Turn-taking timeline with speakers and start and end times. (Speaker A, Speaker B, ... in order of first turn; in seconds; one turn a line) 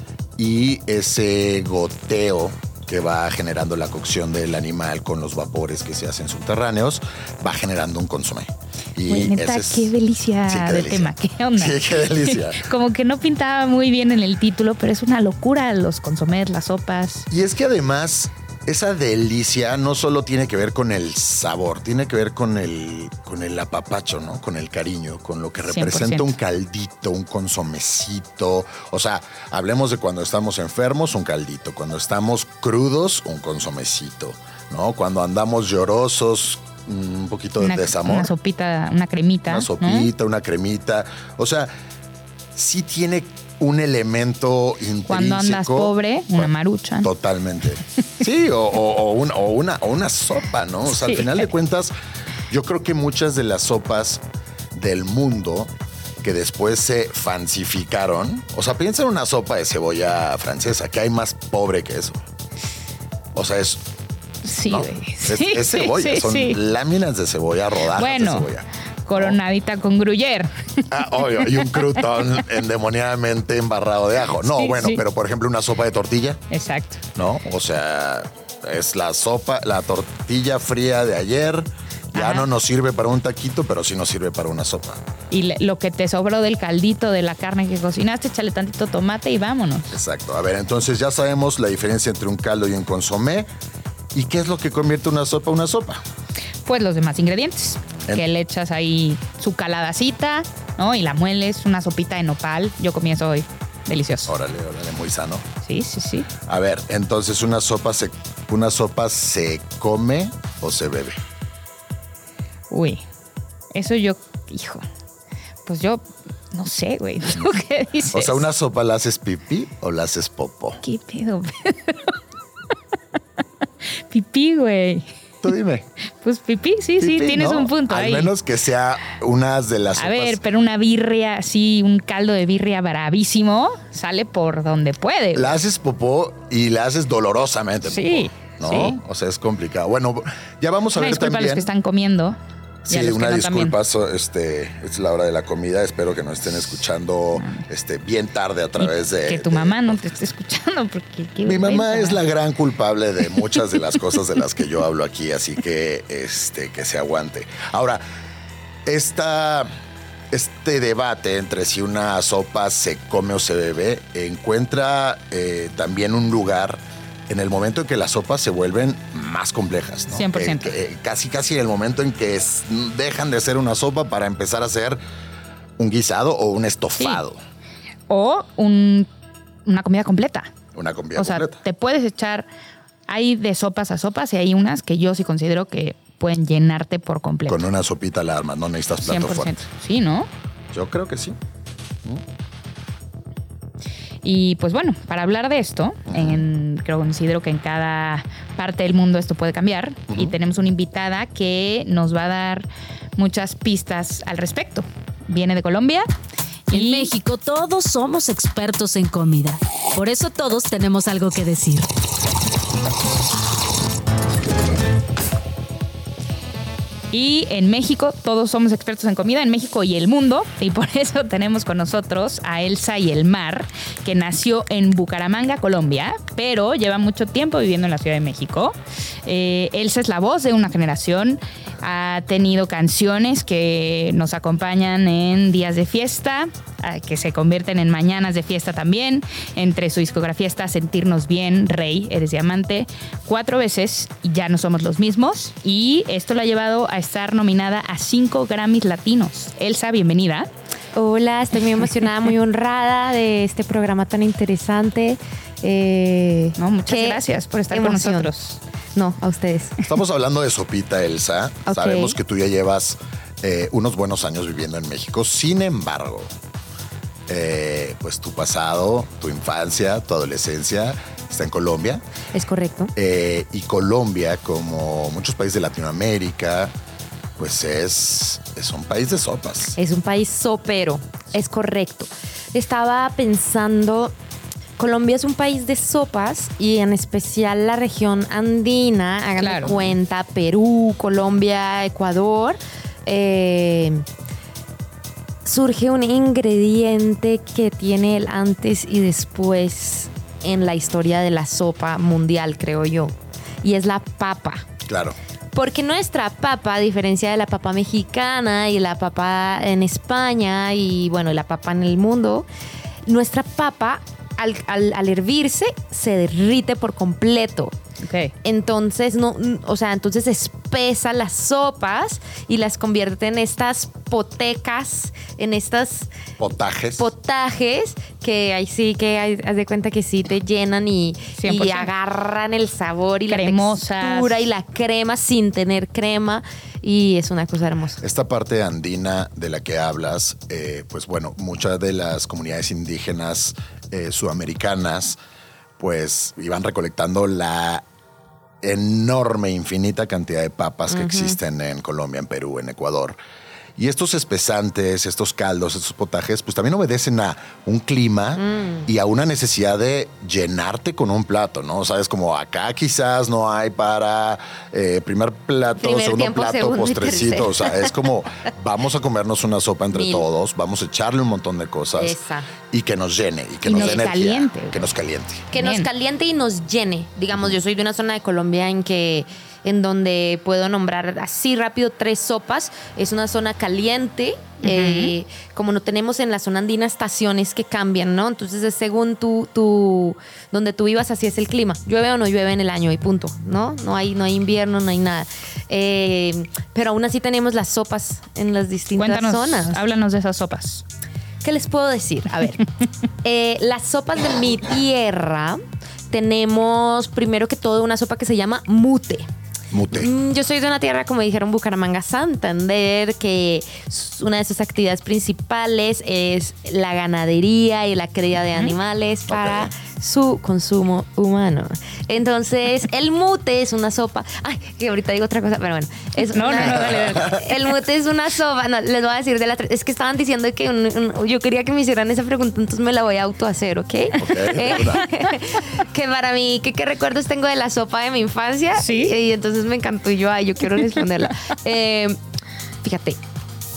Speaker A: 0.4-9.9
Speaker B: 9.1-17.3
Speaker A: 10.5-12.7
Speaker A: 17.3-38.3
Speaker B: 25.6-26.4
Speaker B: 37.6-40.1
Speaker A: 39.5-41.7
Speaker A: 42.5-46.5
Speaker B: 45.1-47.1
Speaker A: 47.0-51.9
Speaker B: 51.0-51.4
Speaker A: 52.5-54.2
Speaker A: 54.7-62.2
Speaker A: 63.3-63.8
Speaker B: 64.4-66.6
Speaker A: 64.7-69.4
Speaker B: 68.0-68.5
Speaker B: 69.1-71.9
Speaker A: 70.9-76.4
Speaker B: 74.5-75.0
Speaker B: 76.5-77.0
Speaker A: 77.2-85.0
Speaker B: 82.1-82.5
Speaker B: 85.3-90.0
Speaker A: 89.9-93.5
Speaker A: 94.1-96.0
Speaker B: 96.7-104.3
Speaker A: 104.3-105.5
Speaker B: 105.6-106.3
Speaker A: 106.5-111.2
Speaker B: 112.7-113.0
Speaker B: 113.7-114.8
Speaker B: 115.7-118.4
Speaker A: 118.1-120.8
Speaker B: 120.8-122.2
Speaker B: 123.9-125.1
Speaker A: 125.4-125.9
Speaker B: 126.2-128.3
Speaker A: 127.0-130.4
Speaker B: 130.0-135.6
Speaker A: 135.3-141.7
Speaker B: 137.9-139.0
Speaker B: 141.0-142.4
Speaker A: 142.8-150.0
Speaker B: 142.9-143.8
Speaker B: 147.4-147.7
Speaker B: 148.8-152.2
Speaker A: 151.4-158.0
Speaker A: 158.9-159.7
Speaker A: 160.3-175.0
Speaker B: 170.1-170.7
Speaker A: 175.8-177.4
Speaker B: 178.1-179.1
Speaker B: 179.7-180.5
Speaker A: 180.7-181.6
Speaker B: 181.2-182.5
Speaker B: 183.1-187.6
Speaker A: 187.5-189.6
Speaker B: 189.0-190.3
Speaker A: 190.7-191.4
Speaker B: 194.2-206.1
Speaker A: 196.1-196.4
Speaker B: 206.7-207.1
Speaker C: 206.7-211.9
Speaker B: 217.1-250.5
Speaker D: 250.9-258.3
Speaker B: 256.6-258.6
Speaker D: 258.9-259.8
Speaker A: 259.8-266.3
Speaker D: 261.7-262.2
Speaker A: 267.3-272.0
Speaker D: 272.3-272.9
Speaker A: 272.9-276.7
Speaker A: 277.4-279.8
Speaker D: 279.8-284.1
Speaker D: 284.8-294.1
Speaker B: 289.4-289.8
Speaker D: 295.4-304.7
Speaker A: 304.9-305.2
Speaker D: 305.5-312.5
Speaker D: 313.1-317.8
Speaker B: 318.0-318.3
Speaker D: 318.4-326.1
Speaker A: 326.4-327.1
Speaker D: 327.0-338.0
Speaker B: 331.4-331.9
Speaker B: 333.3-334.4
Speaker A: 338.0-345.2
Speaker A: 345.8-347.9
Speaker A: 348.6-353.2
Speaker D: 350.9-351.4
Speaker A: 353.8-372.2
Speaker D: 358.4-358.9
Speaker D: 365.8-367.9
Speaker D: 369.9-370.2
Speaker D: 372.0-372.5
Speaker A: 372.7-375.5
Speaker B: 373.6-374.9
Speaker D: 373.8-374.1
Speaker D: 375.5-399.8
Speaker B: 375.5-375.9
Speaker B: 384.6-385.1
Speaker B: 399.0-400.8
Speaker D: 401.4-402.7
Speaker D: 403.2-409.3
Speaker A: 409.7-410.1
Speaker D: 409.9-442.2
Speaker A: 419.3-419.7
Speaker B: 426.2-427.4
Speaker A: 426.6-427.4
Speaker A: 434.2-435.1
Speaker B: 438.8-439.1
Speaker D: 442.8-443.2